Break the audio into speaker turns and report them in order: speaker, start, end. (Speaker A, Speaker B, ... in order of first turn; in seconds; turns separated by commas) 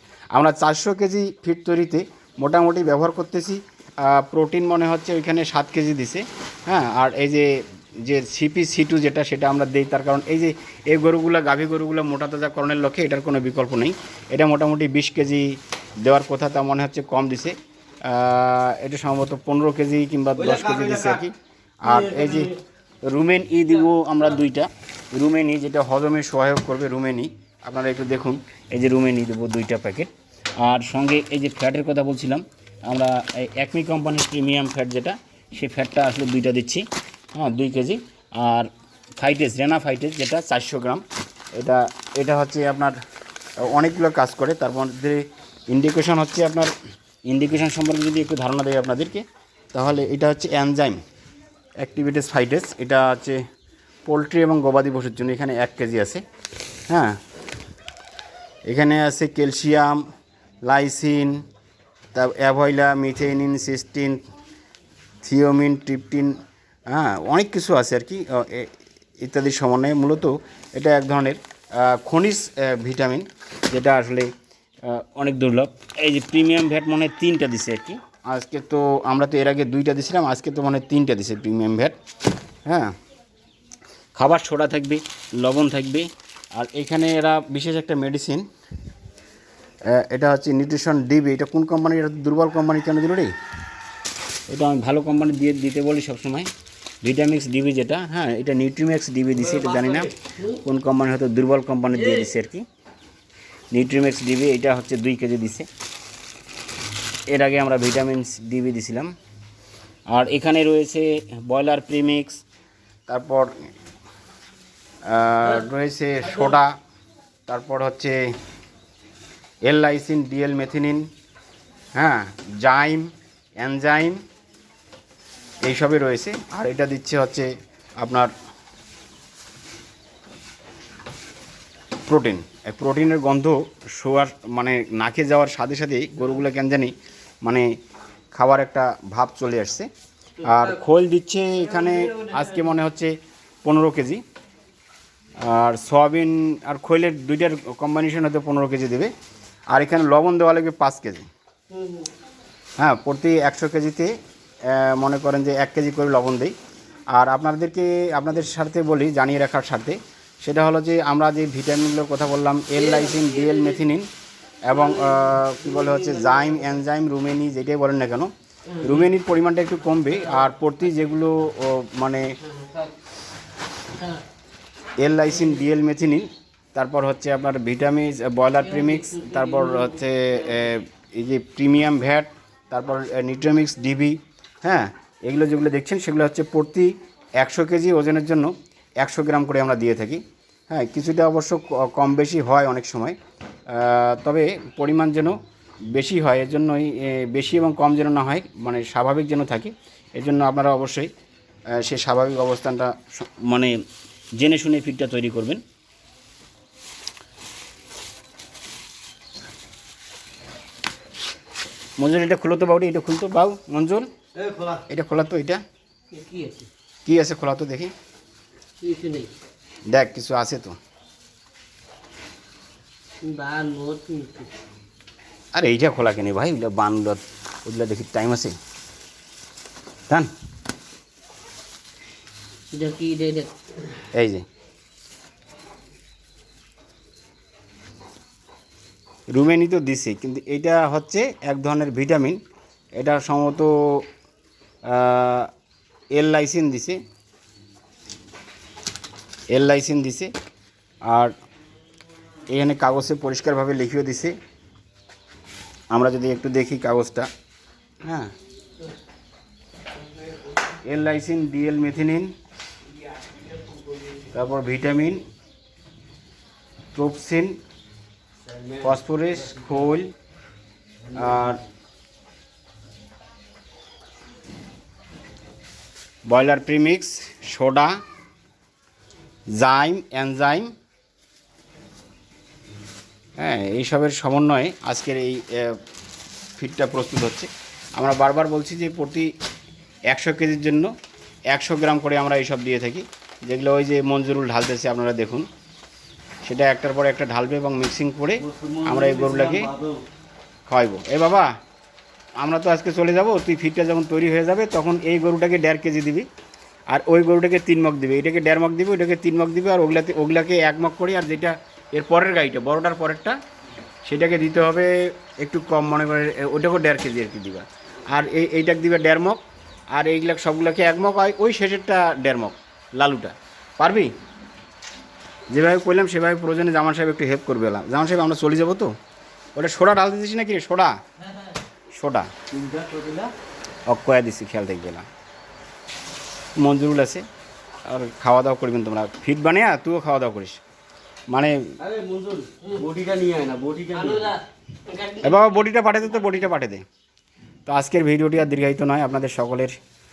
Speaker A: 0.3-41.0, Speaker B: 20.5-21.2, Speaker A: 41.5-43.0, Speaker A: 43.6-46.7, Speaker A: 47.2-51.0, Speaker A: 51.8-53.4, Speaker A: 54.0-56.2, Speaker A: 56.9-57.2, Speaker A: 58.6-60.0, Speaker A: 60.6-61.4, Speaker A: 62.1-64.2, Speaker A: 65.2-74.3, Speaker A: 74.8-82.0, Speaker A: 82.6-82.9, Speaker A: 84.1-88.4, Speaker A: 89.8-93.3, Speaker A: 94.5-96.5, Speaker A: 97.0-102.6, Speaker A: 103.7-105.7, Speaker A: 107.3-109.1, Speaker A: 110.1-112.4, Speaker A: 113.1-113.7, Speaker A: 115.0-116.8, Speaker A: 117.5-118.3, Speaker A: 119.6-121.1, Speaker A: 121.9-124.2, Speaker A: 125.6-128.3, Speaker A: 132.1-137.8, Speaker A: 138.3-139.9, Speaker A: 140.4-144.2, Speaker A: 145.4-149.1, Speaker A: 149.7-151.2, Speaker C: 151.7-152.1, Speaker A: 152.8-156.5, Speaker A: 157.1-164.1, Speaker C: 163.0-163.6, Speaker A: 164.6-172.4, Speaker C: 165.1-166.4, Speaker C: 172.5-172.9, Speaker C: 173.9-174.2, Speaker A: 175.0-193.2, Speaker C: 178.8-179.8, Speaker A: 193.7-195.4, Speaker A: 195.9-201.1, Speaker A: 201.7-203.8, Speaker A: 204.3-205.6, Speaker A: 212.0-214.1, Speaker B: 214.3-214.8, Speaker A: 214.9-215.6, Speaker C: 216.1-216.7, Speaker A: 217.0-217.9, Speaker C: 218.8-219.3, Speaker A: 219.9-220.8, Speaker C: 223.2-224.5, Speaker A: 225.5-228.6, Speaker C: 232.7-233.5, Speaker A: 234.1-234.4, Speaker A: 239.3-242.4, Speaker A: 242.9-244.1, Speaker A: 244.8-245.5, Speaker A: 246.1-247.0, Speaker A: 249.5-250.3, Speaker A: 251.0-251.3, Speaker A: 252.5-254.3, Speaker A: 255.9-257.3, Speaker A: 258.0-258.3, Speaker A: 260.8-262.3, Speaker A: 264.3-265.2, Speaker A: 266.9-267.6, Speaker B: 268.5-268.8, Speaker A: 268.8-270.1, Speaker A: 271.1-271.6, Speaker A: 276.2-278.0, Speaker A: 279.5-280.7, Speaker A: 283.4-285.8, Speaker A: 286.6-289.3, Speaker A: 290.1-290.9, Speaker A: 291.5-295.5, Speaker A: 296.4-299.7, Speaker B: 298.4-300.0, Speaker A: 300.7-301.5, Speaker A: 302.4-306.3, Speaker A: 306.9-313.4, Speaker A: 314.0-324.1, Speaker A: 325.5-328.9, Speaker A: 329.5-330.9, Speaker A: 331.9-332.3, Speaker B: 332.5-333.3, Speaker A: 333.9-335.1, Speaker A: 336.6-337.2, Speaker A: 337.8-340.6, Speaker A: 341.3-341.6, Speaker B: 341.8-344.4, Speaker C: 343.9-345.4, Speaker A: 345.2-346.8, Speaker A: 347.6-349.8